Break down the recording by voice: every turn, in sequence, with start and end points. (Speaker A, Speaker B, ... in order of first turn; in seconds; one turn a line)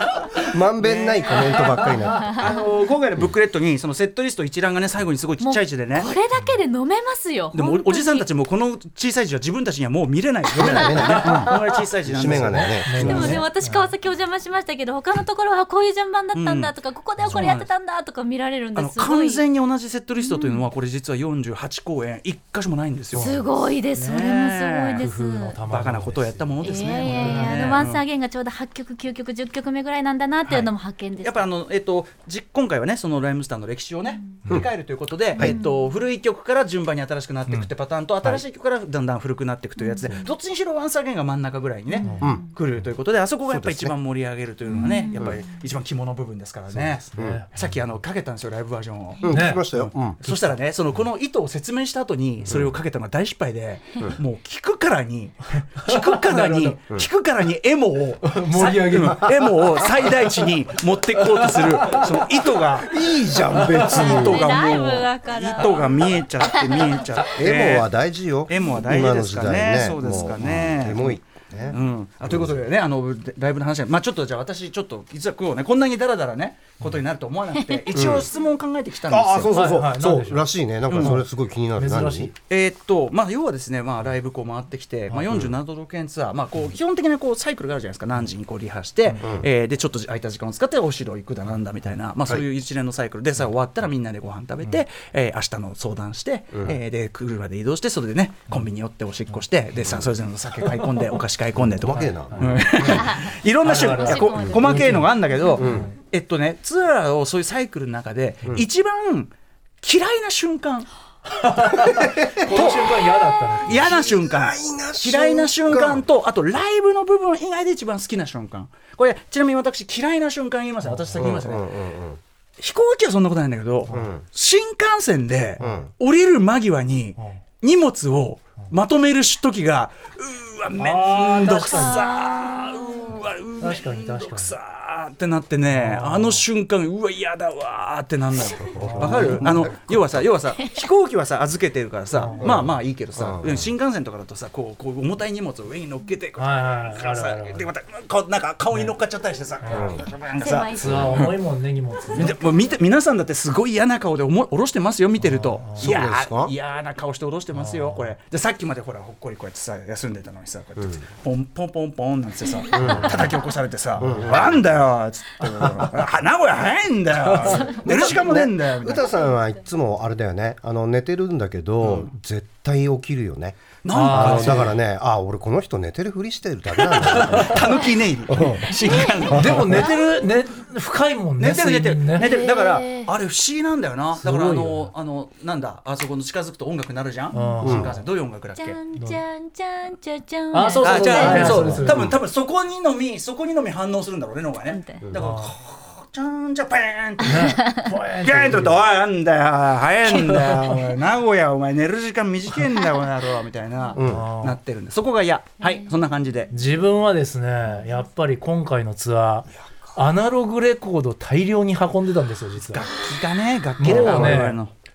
Speaker A: 0.5-2.5
Speaker B: 0.8-6.1
Speaker C: 2.1-2.5
Speaker C: 5.4-8.2
Speaker B: 7.5-13.4
Speaker A: 10.5-13.4
Speaker C: 10.7-11.5
Speaker D: 12.2-13.9
Speaker C: 12.9-19.4
Speaker B: 16.3-16.7
Speaker D: 17.2-17.5
Speaker B: 17.2-17.7
Speaker B: 18.7-23.4
Speaker C: 20.2-20.6
Speaker D: 23.1-23.4
Speaker C: 23.1-25.6
Speaker B: 23.9-25.1
Speaker D: 25.0-26.5
Speaker B: 25.6-28.0
Speaker C: 26.6-31.4
Speaker D: 27.1-27.8
Speaker B: 30.4-62.9
Speaker C: 35.4-35.9
Speaker C: 39.8-40.2
Speaker C: 41.9-42.4
Speaker D: 42.0-42.4
Speaker A: 42.2-42.5
Speaker A: 43.5-43.9
Speaker C: 44.7-45.2
Speaker A: 45.1-45.4
Speaker A: 46.7-47.4
Speaker D: 47.1-47.5
Speaker A: 49.2-50.2
Speaker D: 49.3-49.6
Speaker D: 55.8-56.8
Speaker D: 58.2-59.4
Speaker D: 61.3-62.1
Speaker A: 62.8-64.6
Speaker D: 63.5-63.9
Speaker B: 63.7-67.9
Speaker C: 63.9-67.0
Speaker A: 67.3-72.6
Speaker B: 68.5-79.5
Speaker C: 77.6-78.1
Speaker A: 77.9-78.3
Speaker A: 79.1-82.3
Speaker D: 79.5-81.2
Speaker B: 80.9-81.2
Speaker D: 81.8-82.3
Speaker B: 82.5-110.9
Speaker A: 89.2-89.5
Speaker A: 99.8-100.1
Speaker A: 101.6-103.0
Speaker D: 101.9-103.0
Speaker C: 102.9-103.3
Speaker D: 103.6-105.9
Speaker C: 103.9-105.6
Speaker A: 105.5-105.9
Speaker D: 111.3-113.9
Speaker A: 111.8-112.5
Speaker B: 112.5-112.8
Speaker B: 113.6-121.7
Speaker A: 113.7-116.0
Speaker D: 120.8-121.2
Speaker A: 121.1-122.2
Speaker B: 122.6-151.4
Speaker D: 123.9-124.1
Speaker A: 123.9-124.2
Speaker D: 125.6-125.9
Speaker A: 125.6-125.9
Speaker D: 130.8-132.1
Speaker C: 131.4-133.0
Speaker D: 133.6-134.5
Speaker D: 135.7-136.4
Speaker A: 138.6-140.2
Speaker D: 138.7-139.6
Speaker D: 142.1-142.6
Speaker A: 142.4-143.7
Speaker D: 146.4-147.7
Speaker D: 149.6-149.9
Speaker A: 149.7-150.1
Speaker C: 150.4-151.3
Speaker D: 150.8-152.4
Speaker A: 150.8-151.1
Speaker B: 152.1-169.1
Speaker D: 155.2-155.9
Speaker A: 155.8-156.5
Speaker D: 157.5-158.1
Speaker A: 162.7-163.2
Speaker D: 164.0-164.3
Speaker A: 164.0-164.7
Speaker A: 167.4-179.9
Speaker B: 171.8-172.1
Speaker B: 173.8-174.7
Speaker D: 173.9-174.7
Speaker B: 176.8-179.9
Speaker C: 178.8-179.9
Speaker D: 179.3-182.3
Speaker B: 181.4-188.8
Speaker C: 182.2-183.1
Speaker D: 184.2-184.9
Speaker D: 187.3-187.9
Speaker A: 187.6-187.9
Speaker C: 188.6-191.8
Speaker D: 188.9-189.2
Speaker D: 190.5-192.1
Speaker B: 190.8-197.6
Speaker A: 191.3-192.2
Speaker C: 194.7-195.0
Speaker D: 195.1-195.5
Speaker D: 197.2-198.8
Speaker C: 197.4-197.8
Speaker B: 198.2-206.5
Speaker A: 203.9-204.3
Speaker D: 204.0-204.6
Speaker D: 206.5-212.8
Speaker B: 212.7-214.7
Speaker D: 213.8-214.6
Speaker A: 213.9-214.4